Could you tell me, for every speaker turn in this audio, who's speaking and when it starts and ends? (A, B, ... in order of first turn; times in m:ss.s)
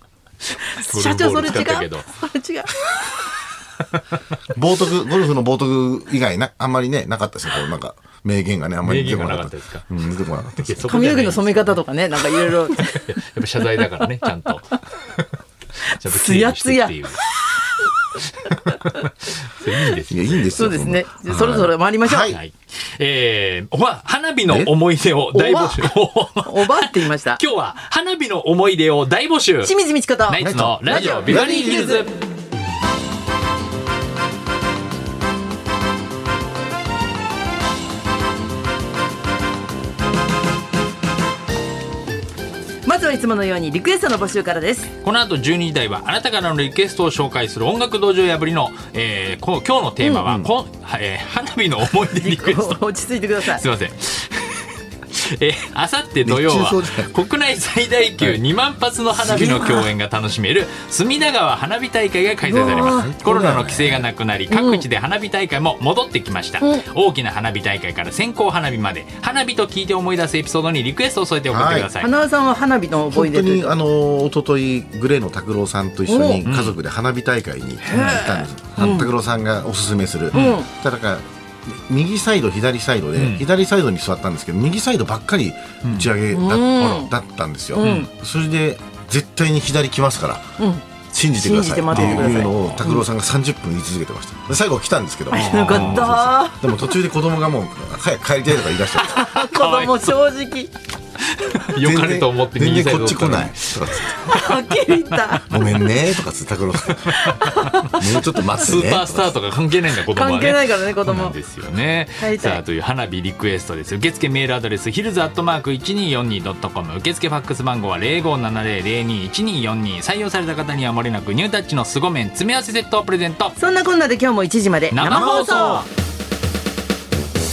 0:00.5-0:02.1 A
0:00.6-0:03.1 B
0:04.5-0:11.0 C
0:08.8-0:09.9 A
0:10.6-0:11.8 A
0:10.9-0:13.1 B
0:12.4-0:17.3 A
0:16.0-0:17.9 B
0:18.2-0:20.7 A
0:18.7-0:19.1 B
0:20.1-0:22.4 C
0:20.6-0:22.4 B
0:22.3-0:29.8 A
0:25.3-0:27.4 B
0:29.6-0:32.1 B
0:30.3-0:32.2 A
0:30.4-0:31.9 C
0:42.8-0:44.9 B
0:45.0-1:12.1 A
0:50.0-0:50.3 B
0:52.0-0:53.6 B
0:56.2-0:57.1 C
0:59.2-0:59.5 C
0:59.2-0:59.9 B
1:02.4-1:03.1 B
1:02.8-1:04.1 C
1:04.5-1:04.8 B
1:11.5-1:11.9 C
1:12.0-1:13.8 B
1:13.1-1:30.5 C
1:16.1-1:16.4 B
1:16.4-1:16.8 A
1:17.9-1:19.1 B
1:17.9-1:18.3 A
1:20.3-1:20.6 A
1:20.3-1:20.7 B
1:23.2-1:23.5 A
1:25.8-1:26.2 A
1:26.3-1:27.1 B
1:27.8-1:28.1 B
1:27.8-1:28.1 A
1:30.6-1:30.8 B
1:31.1-1:39.2 C
1:31.4-1:33.0 B
1:31.9-1:32.8 A
1:35.3-1:36.7 B
1:35.3-1:36.1 A
1:39.0-1:40.2 A
1:39.0-1:40.7 B
1:41.2-1:45.4 A
1:41.7-1:44.2 C
1:44.2-1:45.6 B
1:45.5-1:49.4 C
1:46.9-1:47.9 A
1:47.2-1:48.4 B
1:48.6-2:03.6 A
1:50.0-1:51.4 B
1:52.2-1:52.6 B
2:03.6-2:05.9 B
2:04.9-2:05.9 A